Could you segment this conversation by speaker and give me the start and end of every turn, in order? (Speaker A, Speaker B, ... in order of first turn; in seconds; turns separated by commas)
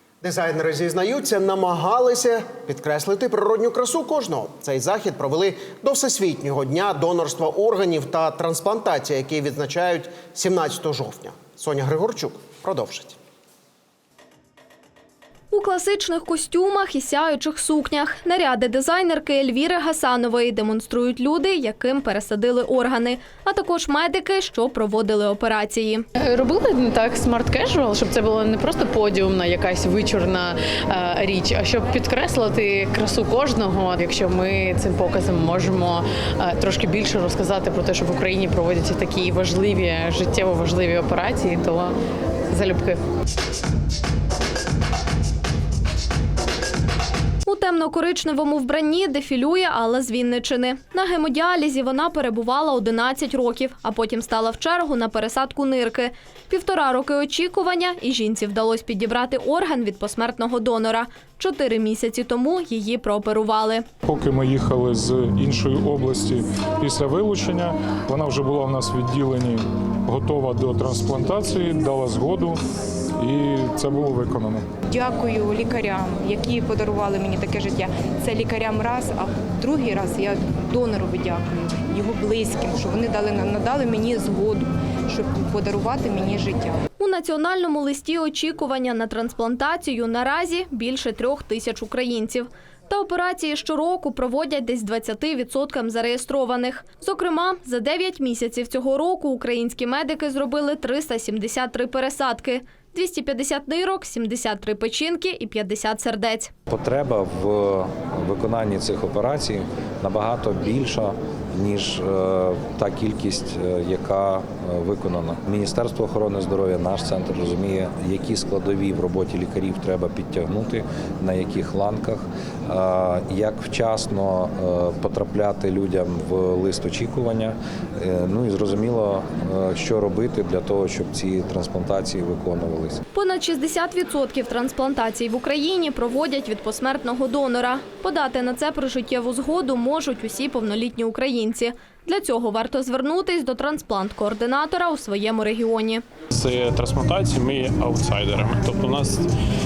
Speaker A: 0.2-13.2, Speaker B: 15.5-26.1, Speaker C: 26.5-35.9, Speaker C: 36.5-41.9, Speaker B: 47.5-63.9, Speaker D: 64.0-72.6, Speaker D: 73.2-74.7, Speaker E: 74.9-86.8, Speaker B: 87.0-106.5, Speaker F: 106.7-133.0, Speaker B: 133.1-146.0, Speaker G: 146.3-149.3